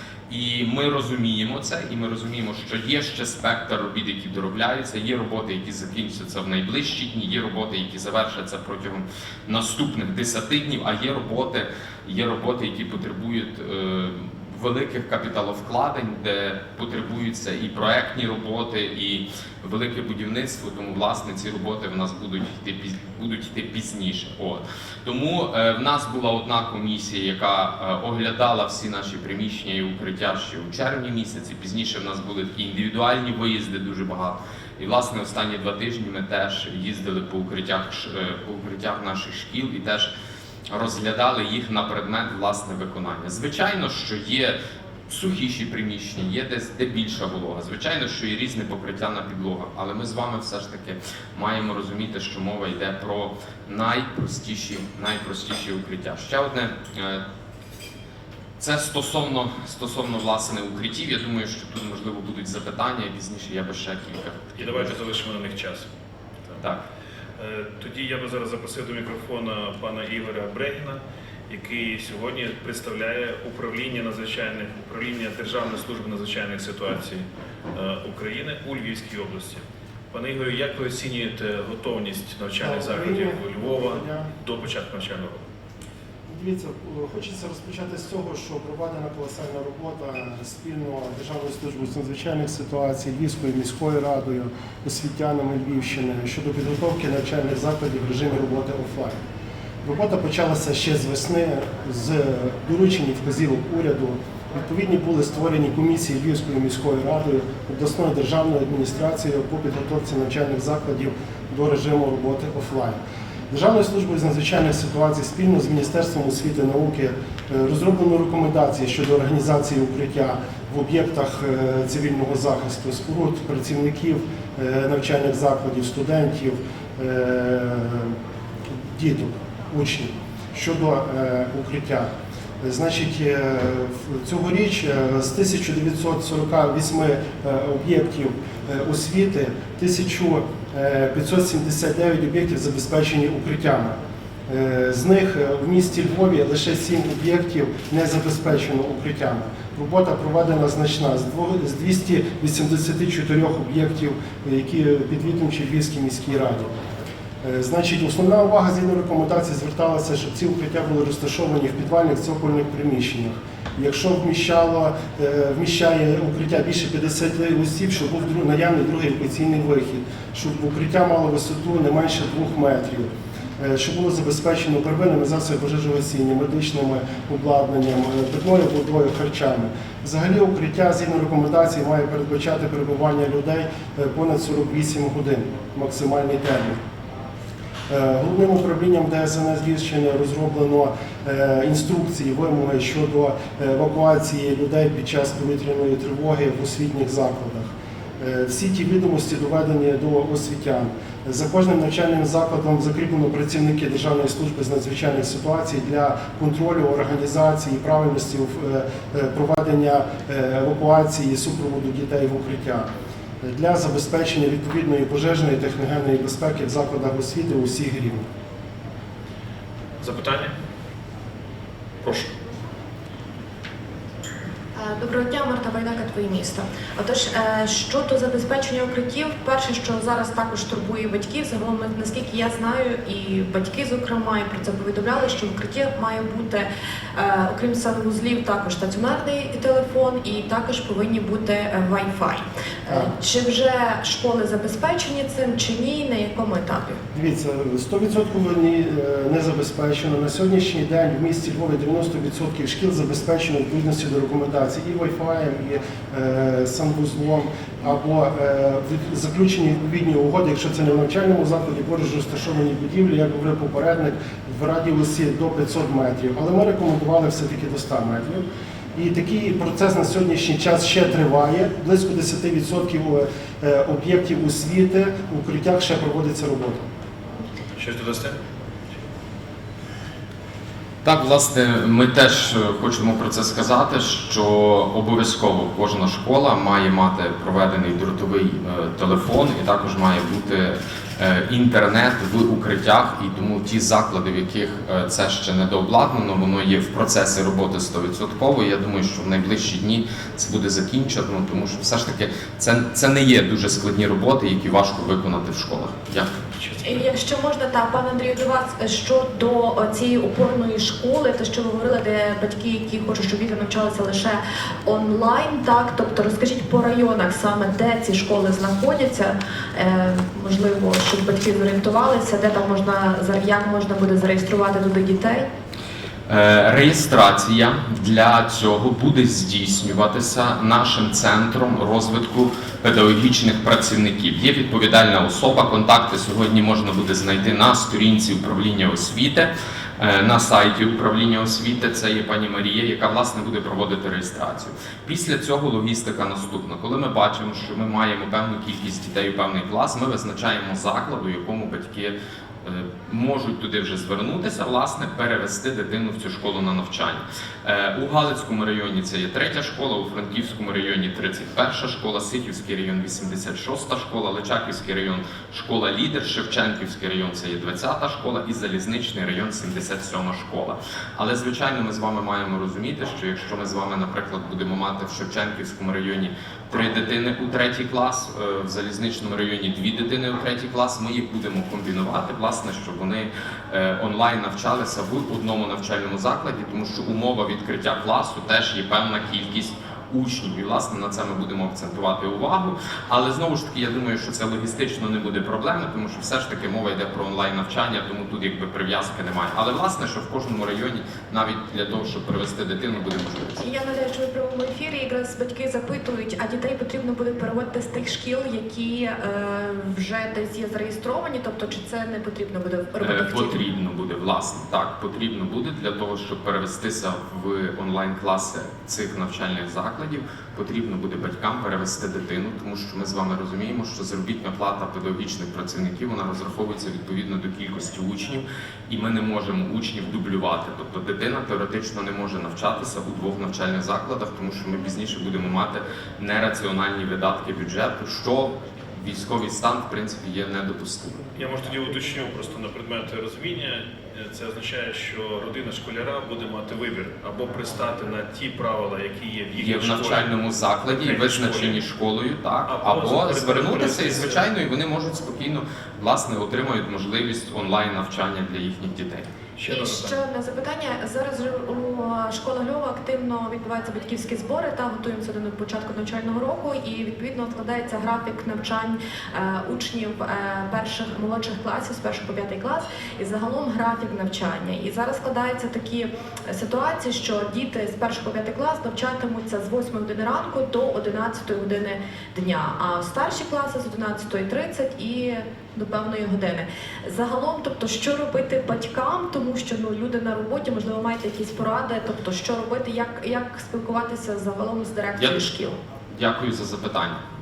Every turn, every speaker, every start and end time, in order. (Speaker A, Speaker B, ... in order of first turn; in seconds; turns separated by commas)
Speaker A: 0.3-40.1, Speaker A: 40.7-44.5, Speaker A: 45.1-57.2, Speaker A: 58.6-64.8, Speaker B: 64.6-65.9, Speaker B: 67.4-85.4, Speaker C: 82.6-84.3, Speaker C: 86.3-99.2, Speaker C: 99.8-113.0, Speaker C: 113.5-128.1, Speaker C: 128.9-132.1, Speaker C: 132.6-156.7, Speaker C: 157.4-186.8, Speaker C: 187.9-197.7, Speaker C: 198.2-212.9, Speaker C: 213.4-218.2, Speaker B: 220.0-220.5, Speaker B: 222.0-222.3, Speaker D: 224.8-247.0, Speaker C: 247.1-268.4, Speaker C: 268.9-276.8, Speaker B: 277.8-278.4, Speaker A: 281.0-306.3, Speaker B: 306.5-307.0, Speaker D: 306.8-325.5, Speaker A: 326.3-403.6, Speaker D: 403.6-413.6, Speaker A: 413.0-441.2, Speaker B: 441.3-450.3, Speaker A: 449.5-459.3, Speaker B: 450.9-451.8, Speaker B: 452.6-454.4, Speaker B: 459.6-460.2, Speaker D: 459.7-495.8, Speaker A: 495.1-495.5, Speaker A: 496.1-497.2